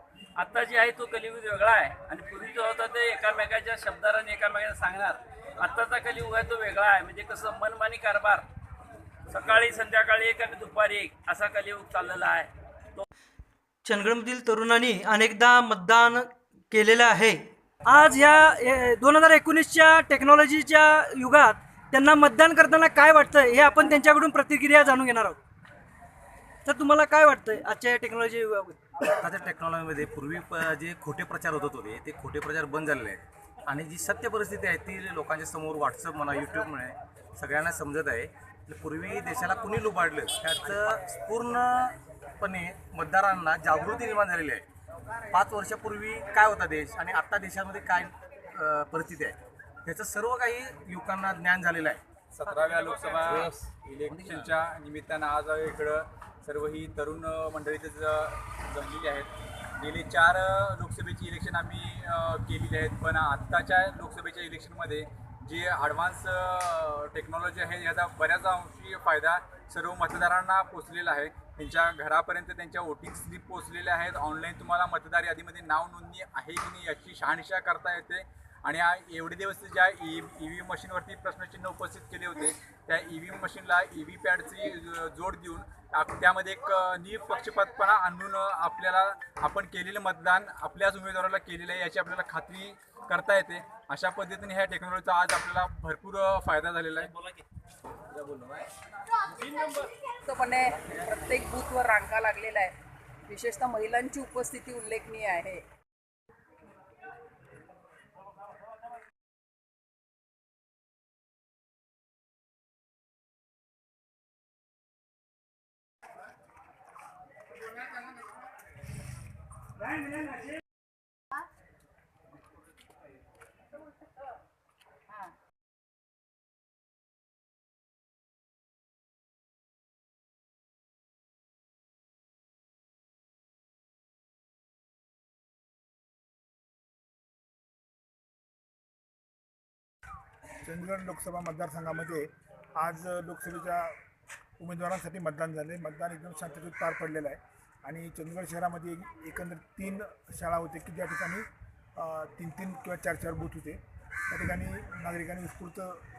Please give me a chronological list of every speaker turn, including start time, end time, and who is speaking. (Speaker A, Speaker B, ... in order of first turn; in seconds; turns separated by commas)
Speaker A: 0.4-8.5, Speaker A: 9.3-13.1, Speaker B: 13.8-25.4, Speaker B: 26.6-28.8, Speaker C: 29.2-44.6, Speaker C: 45.3-52.0, Speaker D: 52.3-97.1, Speaker C: 54.1-54.5, Speaker E: 100.3-100.6, Speaker E: 101.2-102.7, Speaker E: 103.3-105.6, Speaker F: 140.7-144.0, Speaker F: 144.6-151.4, Speaker F: 152.0-153.8, Speaker F: 154.3-156.0